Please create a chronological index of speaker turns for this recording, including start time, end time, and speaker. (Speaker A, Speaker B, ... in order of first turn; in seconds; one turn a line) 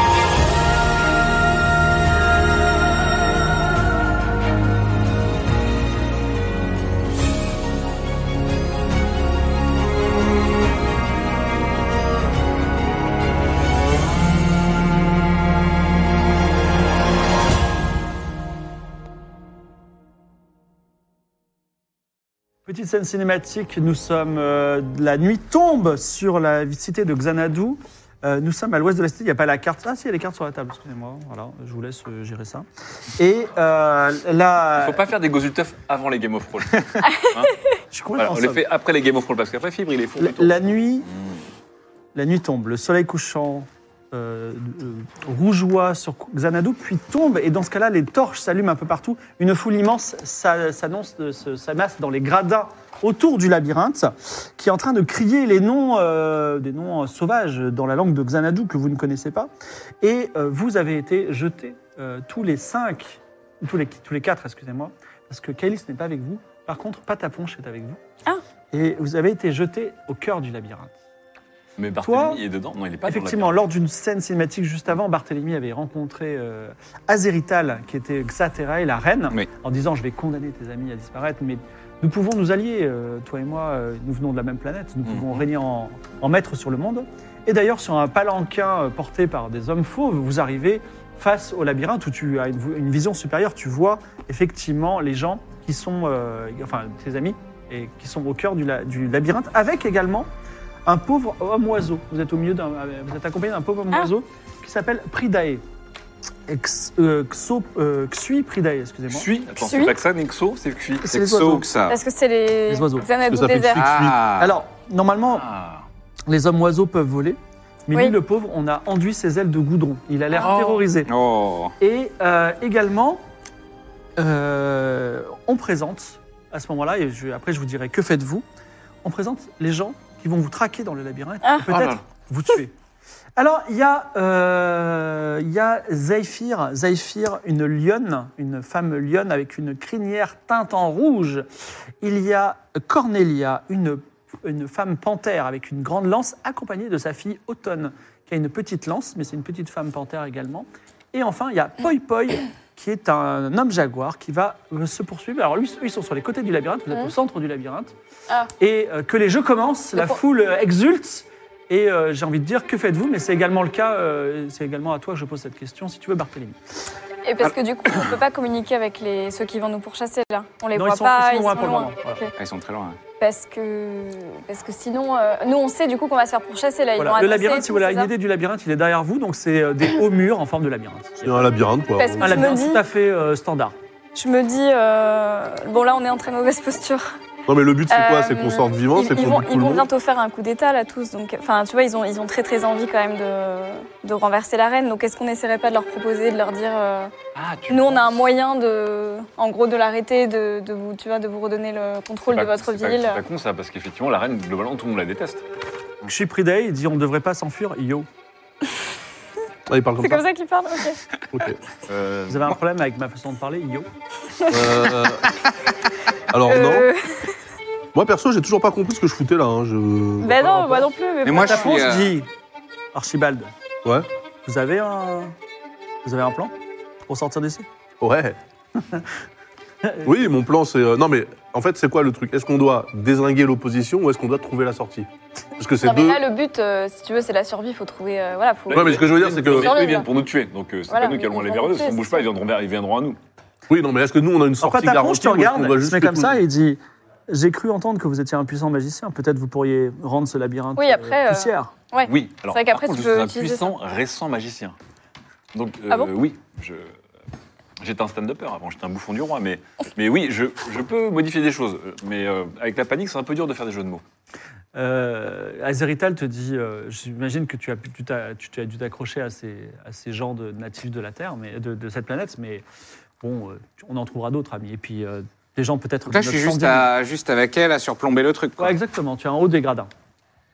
Speaker A: 22.7-32.6
Speaker A: 33.2-35.0
Speaker B: 34.8-37.5
Speaker A: 37.9-38.6
Speaker B: 38.2-40.6
Speaker A: 40.2-41.1
Speaker A: 42.1-59.5
Speaker A: 60.0-68.0
Speaker A: 68.7-70.9
Speaker B: 71.8-73.6
Speaker A: 72.0-72.4
Speaker A: 73.1-100.3
Speaker C: 85.0-85.4
Speaker A: 100.9-105.6
Speaker A: 106.5-109.3
Speaker B: 109.1-111.0
Speaker D: 109.5-110.0
Speaker A: 111.0-111.7
Speaker C: 111.1-112.0
Speaker D: 111.9-113.9
Speaker A: 112.7-113.1
Speaker E: 113.3-114.2
Speaker C: 113.8-114.5
Speaker A: 114.4-115.5
Speaker B: 115.3-115.9
Speaker A: 116.3-121.1
Speaker B: 120.3-120.8
Speaker C: 121.1-121.8
Speaker A: 121.8-123.2
Speaker A: 124.2-128.4
Speaker A: 129.0-132.7
Speaker D: 131.4-131.7
Speaker B: 131.7-132.0
Speaker A: 133.4-141.5
Speaker A: 142.0-157.9
Speaker A: 158.6-166.6
Speaker D: 167.2-172.3
Speaker A: 170.8-172.2
Speaker C: 172.4-173.0
Speaker D: 173.2-178.1
Speaker A: 177.0-181.5
Speaker E: 181.2-182.5
Speaker D: 181.9-182.8
Speaker A: 182.2-183.8
Speaker D: 184.2-187.1
Speaker E: 187.5-189.9
Speaker D: 187.9-197.1
Speaker B: 197.3-198.1
Speaker D: 197.7-203.2
Speaker B: 202.3-205.4
Speaker A: 206.1-208.1
Speaker E: 209.7-210.2
Speaker D: 210.0-211.0
Speaker E: 211.3-211.6
Speaker B: 211.9-212.5
Speaker A: 212.3-213.9
Speaker D: 214.4-215.1
Speaker E: 214.5-215.3
Speaker E: 216.3-216.9
Speaker D: 216.4-217.3
Speaker E: 217.9-220.4
Speaker D: 220.2-221.8
Speaker A: 220.3-222.3
Speaker C: 221.2-222.2
Speaker A: 222.9-223.5
Speaker A: 224.4-225.3
Speaker A: 226.0-226.5
Speaker A: 227.1-227.7
Speaker E: 228.0-228.4
Speaker A: 229.8-230.1
Speaker E: 230.0-236.2
Speaker D: 235.8-240.1
Speaker B: 238.7-243.2
Speaker E: 238.7-239.8
Speaker D: 240.9-242.2
Speaker E: 243.7-246.4
Speaker A: 244.6-251.7
Speaker D: 250.8-253.7
Speaker B: 252.0-254.8
Speaker B: 255.5-256.9
Speaker B: 257.8-264.0
Speaker A: 264.8-272.6
Speaker A: 273.2-276.9
Speaker C: 276.1-278.8
Speaker A: 278.6-279.9